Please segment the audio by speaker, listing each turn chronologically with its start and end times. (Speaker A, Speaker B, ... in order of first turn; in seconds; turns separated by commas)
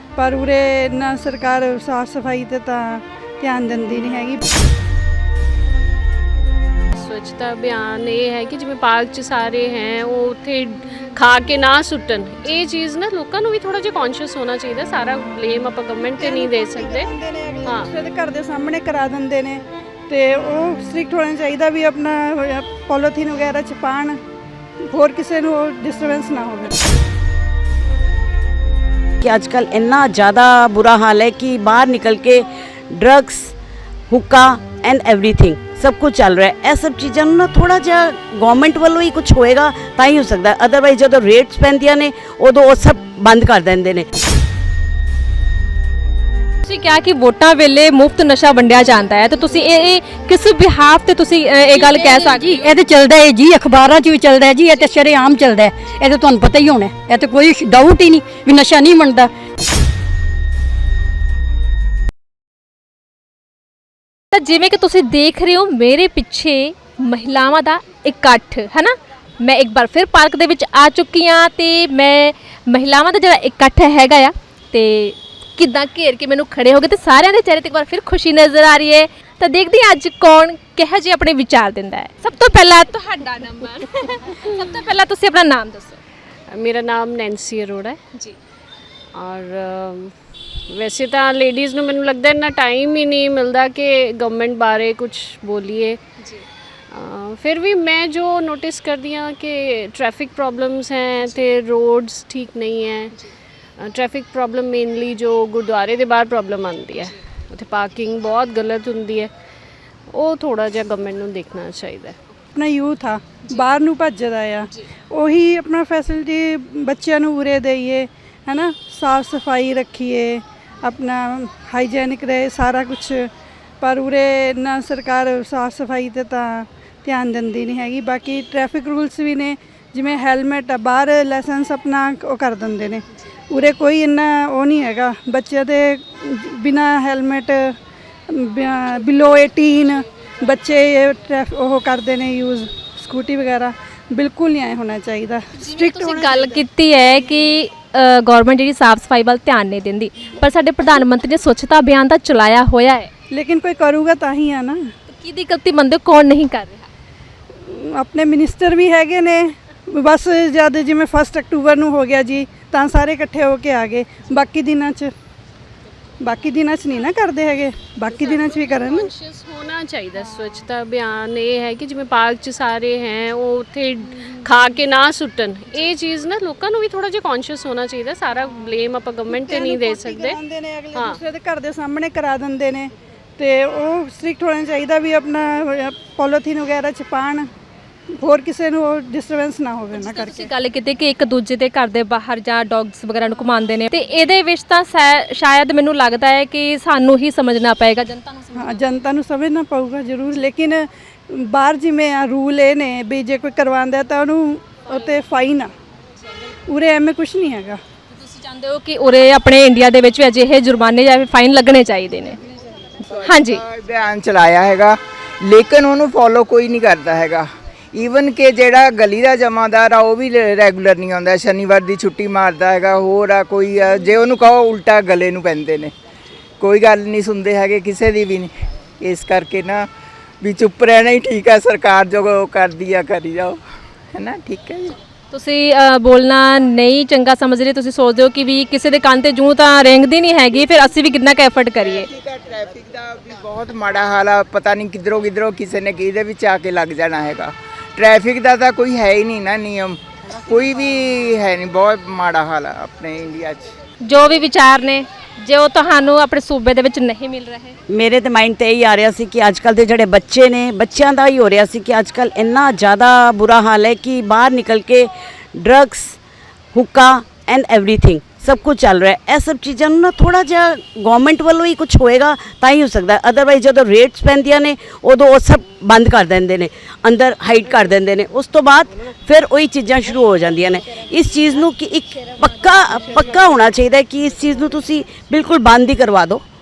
Speaker A: 0.1-4.5, Speaker B: 6.9-17.1, Speaker A: 16.1-24.2, Speaker A: 24.9-26.8, Speaker C: 29.2-33.5, Speaker C: 34.1-44.0, Speaker D: 46.6-52.6, Speaker E: 52.5-59.3, Speaker D: 64.3-86.0, Speaker B: 86.5-88.0, Speaker B: 89.2-90.1, Speaker B: 90.7-96.0, Speaker B: 96.9-103.1, Speaker B: 103.8-109.3, Speaker B: 110.1-112.2, Speaker A: 112.5-123.3, Speaker A: 123.8-137.8, Speaker A: 138.3-146.6, Speaker D: 145.6-153.1, Speaker A: 153.3-154.8, Speaker D: 155.1-156.9, Speaker A: 157.6-165.1, Speaker A: 166.2-169.1, Speaker B: 168.1-180.4, Speaker A: 179.3-187.5, Speaker B: 180.9-181.2, Speaker A: 188.2-190.5, Speaker D: 189.9-198.8, Speaker A: 198.5-205.7, Speaker A: 206.7-207.8, Speaker D: 208.2-212.4, Speaker F: 213.1-225.9, Speaker D: 213.2-213.6, Speaker F: 226.6-229.9, Speaker F: 230.4-233.6, Speaker F: 234.1-234.9, Speaker D: 235.3-242.1, Speaker F: 241.8-253.7, Speaker D: 254.0-257.8, Speaker C: 257.9-266.2, Speaker C: 266.7-286.4